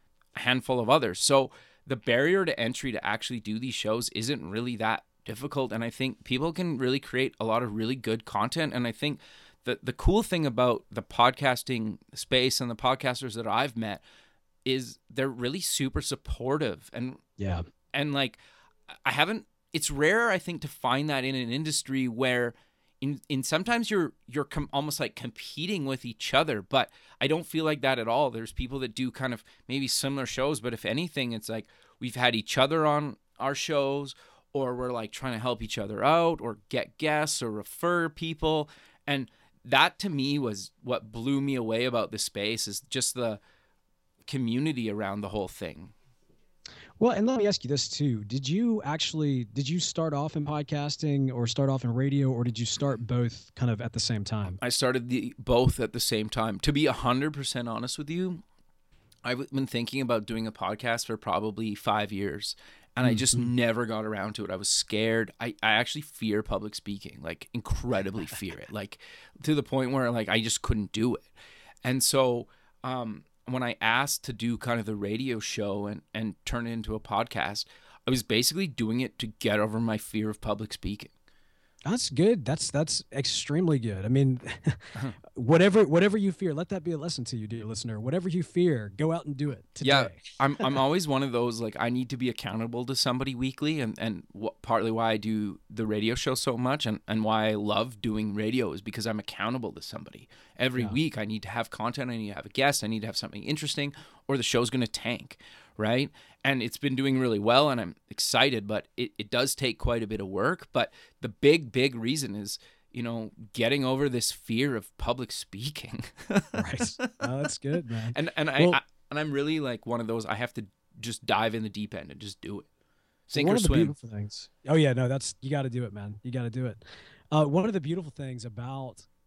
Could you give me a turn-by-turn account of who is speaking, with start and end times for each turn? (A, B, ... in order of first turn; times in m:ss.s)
0:00.4-0:14.0 A
0:14.6-0:17.2 A
0:17.4-0:17.6 B
0:17.9-0:18.4 A
0:18.9-0:43.4 A
0:44.3-0:45.9 A
0:47.0-0:54.6 B
0:54.6-0:58.4 A
0:59.2-1:11.3 A
1:03.0-1:03.5 B
1:11.8-1:21.1 A
1:21.9-1:30.2 B
1:29.8-1:57.2 A
1:56.5-1:58.8 B
1:58.1-2:02.7 A
2:03.3-2:03.9 A
2:03.3-2:09.1 B